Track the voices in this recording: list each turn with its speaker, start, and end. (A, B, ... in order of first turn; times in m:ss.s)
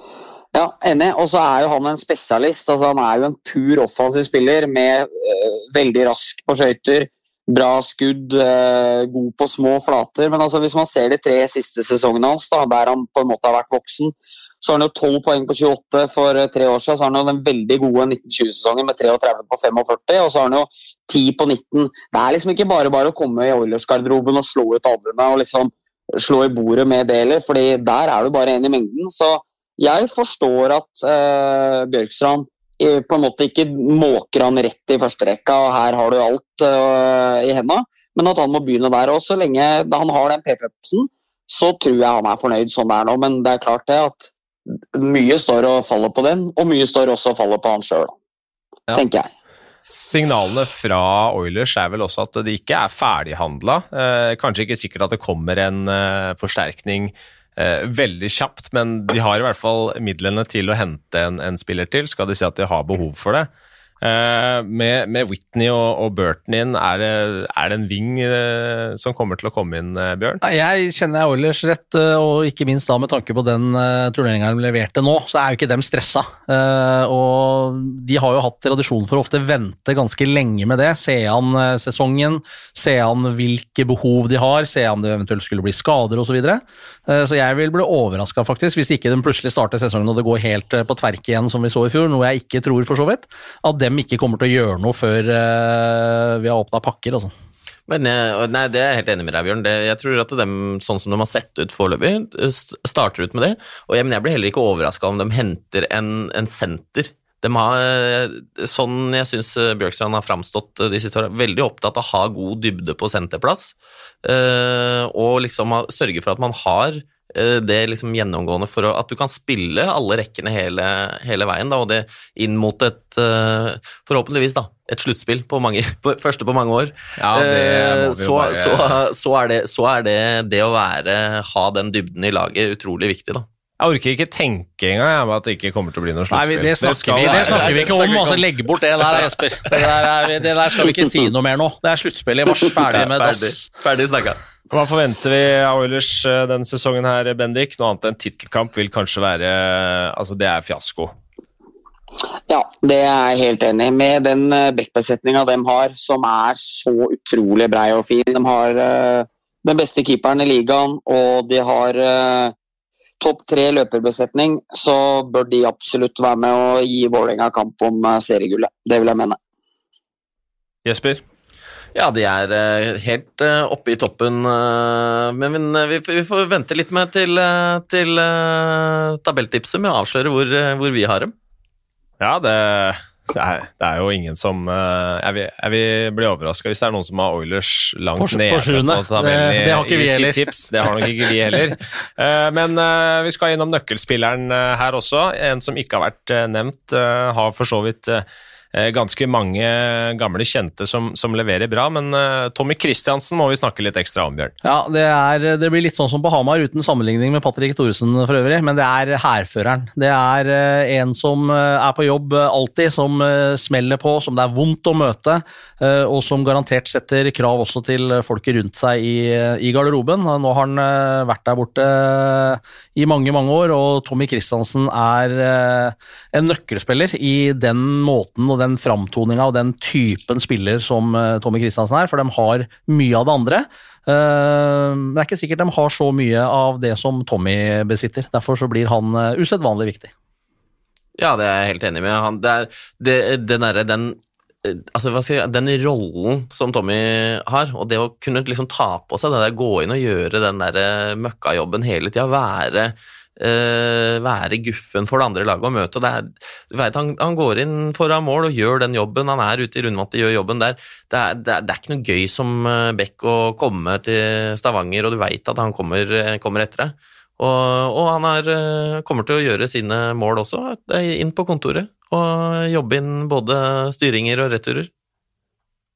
0:00.5-0:44.3 A
0:45.0-0:48.1 A
0:48.9-0:49.3 A
0:49.9-1:03.5 B
1:04.0-1:10.4 B
1:10.4-1:37.3 C
1:37.9-2:13.5 D
2:07.2-2:09.0 B
2:13.8-2:18.0 B
2:16.3-2:23.7 C
2:17.2-2:18.4 D
2:22.9-2:24.4 D
2:24.7-2:31.1 B
2:32.5-2:42.5 A
2:43.2-2:49.4 A
2:50.8-2:51.2 B
2:51.9-3:01.3 D
3:02.2-3:24.5 B
3:08.2-3:11.0 C
3:24.6-4:00.1 C
4:01.2-4:34.9 D